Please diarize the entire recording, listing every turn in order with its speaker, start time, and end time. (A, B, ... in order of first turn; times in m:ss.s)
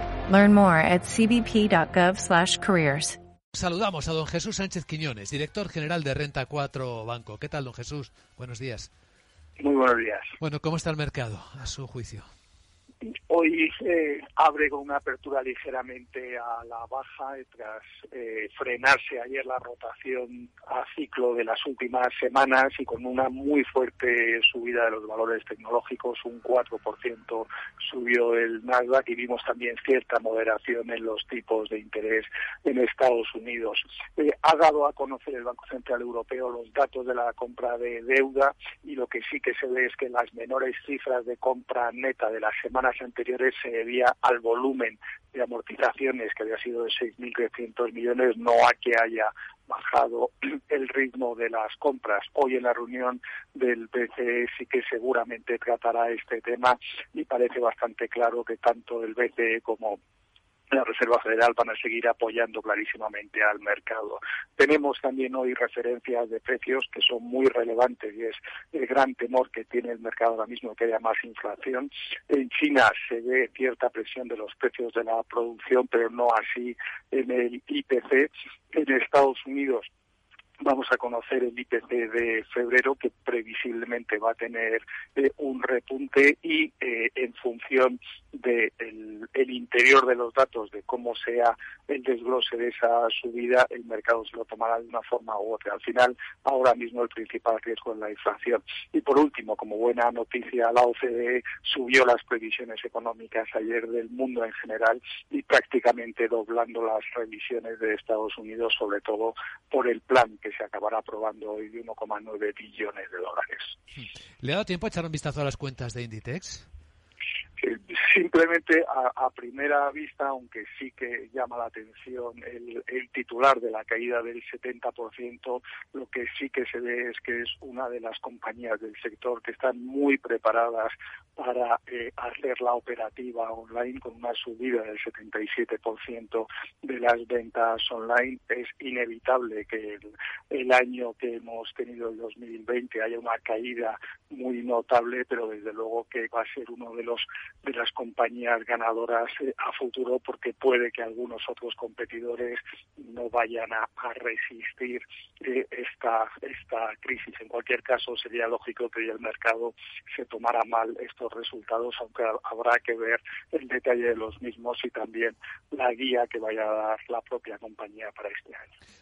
0:00.3-0:03.2 A
0:03.5-0:08.9 B
0:09.6-0:10.3 C
0:10.4-0:12.3 B
0:13.0-1:00.0 C
1:00.7-1:19.9 C
1:20.6-1:53.7 C
1:53.9-1:56.7 B
1:57.6-2:48.7 C